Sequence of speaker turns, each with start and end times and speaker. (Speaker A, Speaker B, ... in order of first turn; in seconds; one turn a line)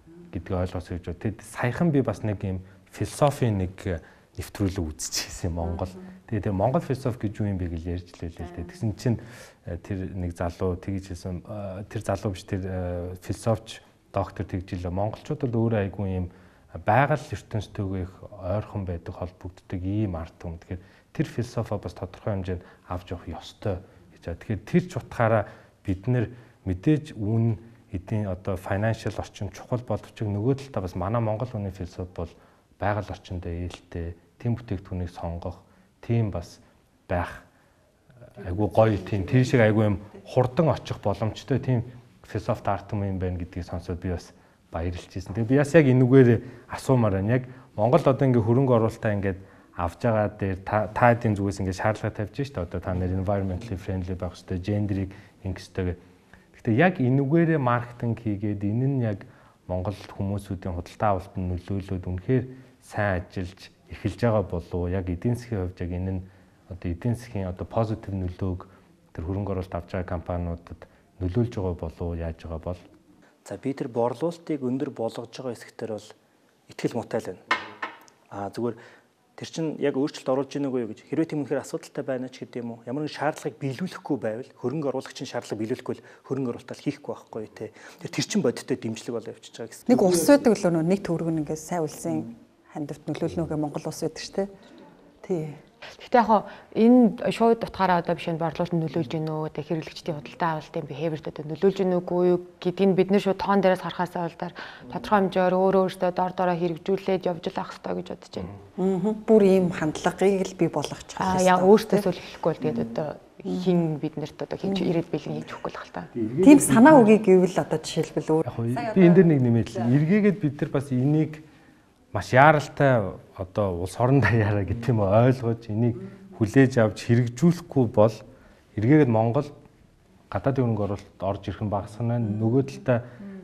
Speaker A: 0.3-37.5
Speaker A: 38.3-56.0
Speaker A: 56.5-72.8
Speaker B: 73.4-76.1
Speaker B: 76.7-77.4
Speaker B: 78.3-78.8
Speaker B: 79.4-90.1
Speaker C: 89.9-94.5
Speaker C: 95.2-95.6
Speaker D: 96.0-108.5
Speaker C: 108.8-112.1
Speaker D: 111.2-116.1
Speaker A: 116.2-117.1
Speaker C: 116.4-119.3
Speaker A: 118.5-121.5
Speaker A: 122.1-128.2
Speaker A: 128.8-129.5
Speaker A: 130.3-133.1